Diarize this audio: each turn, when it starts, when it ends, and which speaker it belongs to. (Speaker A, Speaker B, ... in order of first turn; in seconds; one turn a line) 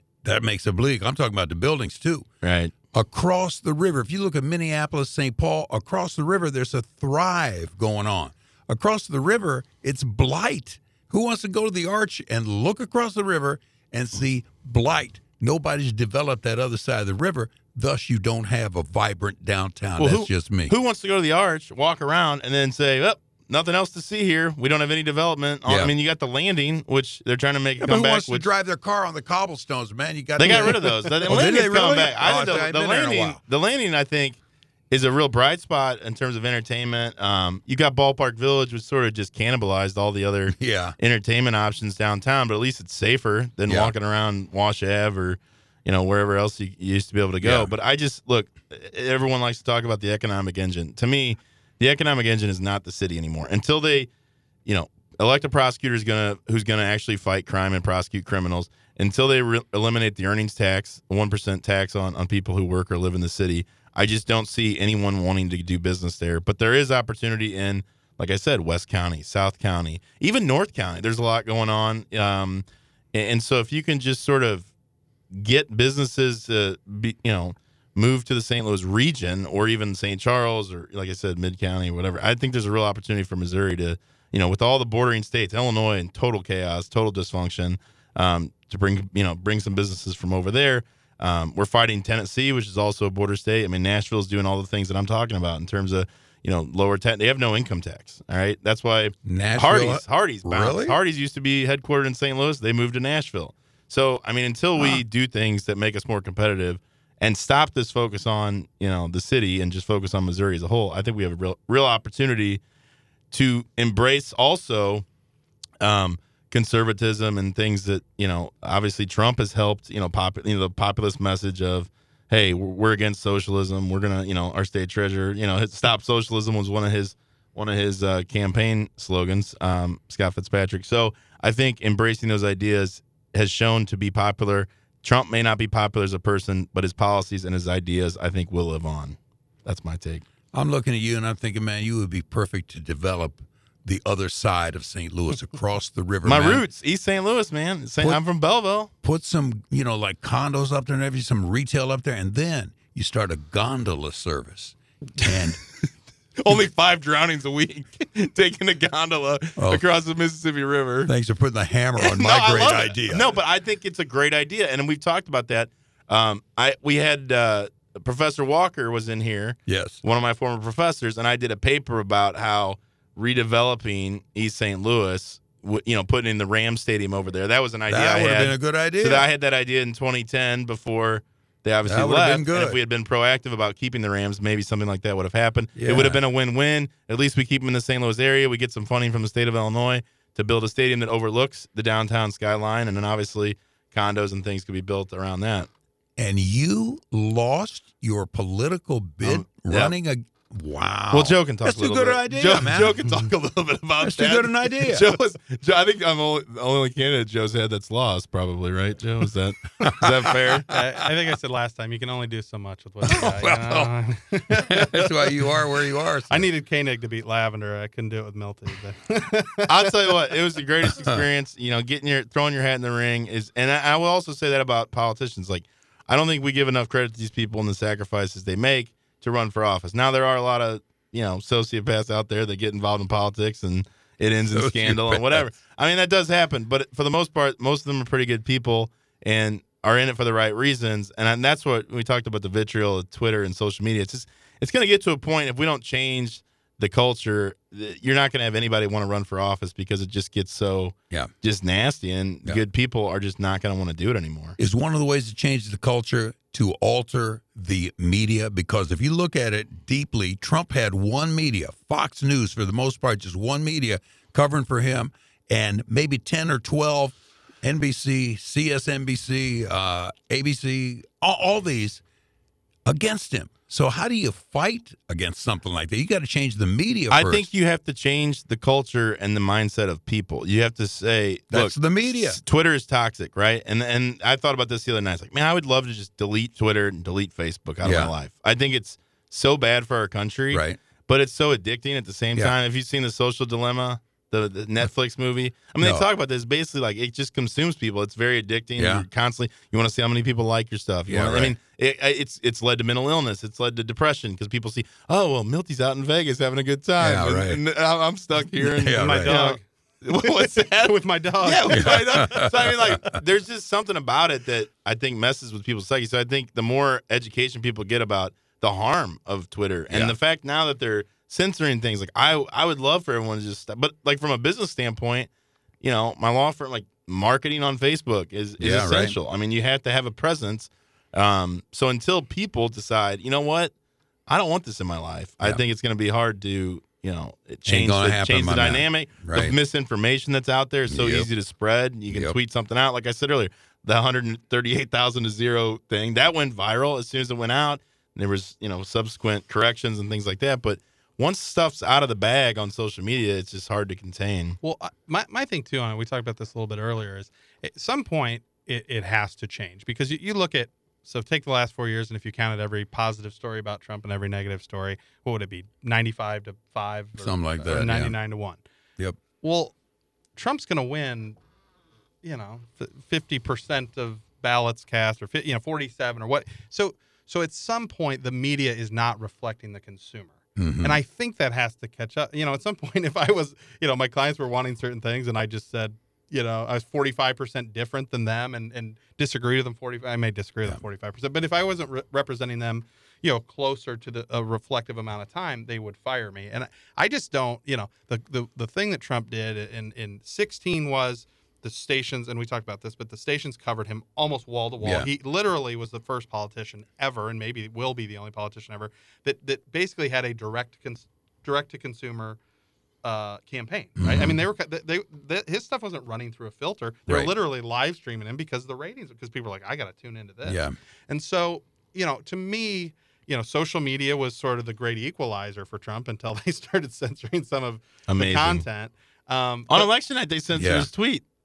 Speaker A: 0.2-2.2
Speaker B: 2.4-2.8
Speaker A: 2.8-20.7
Speaker B: 20.0-28.4
Speaker A: 25.6-25.9
Speaker A: 27.8-33.4
Speaker B: 30.4-34.4
Speaker B: 34.9-54.1
Speaker A: 40.5-40.9
Speaker A: 43.7-43.9
Speaker A: 47.4-47.7
Speaker B: 54.6-74.7
Speaker B: 75.3-112.6
Speaker A: 99.2-101.0
Speaker A: 104.8-105.0
Speaker B: 113.3-115.0
Speaker B: 115.8-140.2
Speaker A: 140.5-146.6
Speaker B: 146.2-148.9
Speaker A: 149.0-155.6
Speaker B: 156.4-161.1
Speaker A: 159.6-159.8
Speaker A: 161.1-163.2
Speaker B: 161.9-195.7
Speaker A: 169.7-170.0
Speaker A: 177.9-179.3
Speaker A: 181.8-182.8
Speaker A: 185.7-186.2
Speaker A: 196.2-203.1
Speaker B: 199.2-199.9
Speaker B: 201.1-210.7
Speaker A: 204.0-205.1
Speaker A: 209.8-210.6
Speaker C: 210.7-215.4
Speaker A: 213.1-213.9
Speaker A: 214.5-216.4
Speaker C: 216.3-219.8
Speaker B: 219.7-254.6
Speaker A: 221.0-221.2
Speaker A: 234.5-235.5
Speaker A: 254.6-272.0
Speaker A: 272.9-277.5
Speaker B: 277.1-325.3
Speaker A: 281.5-282.4
Speaker A: 287.8-288.1
Speaker A: 290.5-290.8
Speaker A: 295.8-296.1
Speaker A: 298.8-299.1
Speaker A: 301.1-301.5
Speaker A: 307.0-307.6
Speaker A: 308.5-309.4
Speaker C: 309.0-312.5
Speaker A: 311.7-313.0
Speaker A: 319.9-320.1
Speaker B: 325.8-333.7
Speaker A: 328.6-329.2
Speaker B: 334.3-354.6
Speaker A: 337.7-339.6
Speaker A: 340.9-341.3
Speaker A: 342.1-342.4
Speaker C: 354.6-368.6
Speaker A: 367.2-368.2
Speaker C: 369.4-369.7
Speaker C: 370.4-371.4
Speaker C: 372.2-412.4
Speaker A: 380.6-381.0
Speaker A: 404.8-405.1
Speaker C: 413.0-429.9
Speaker A: 414.0-414.4
Speaker A: 417.1-417.3
Speaker A: 420.4-420.7
Speaker B: 428.1-428.6
Speaker B: 429.7-431.2
Speaker A: 430.5-430.9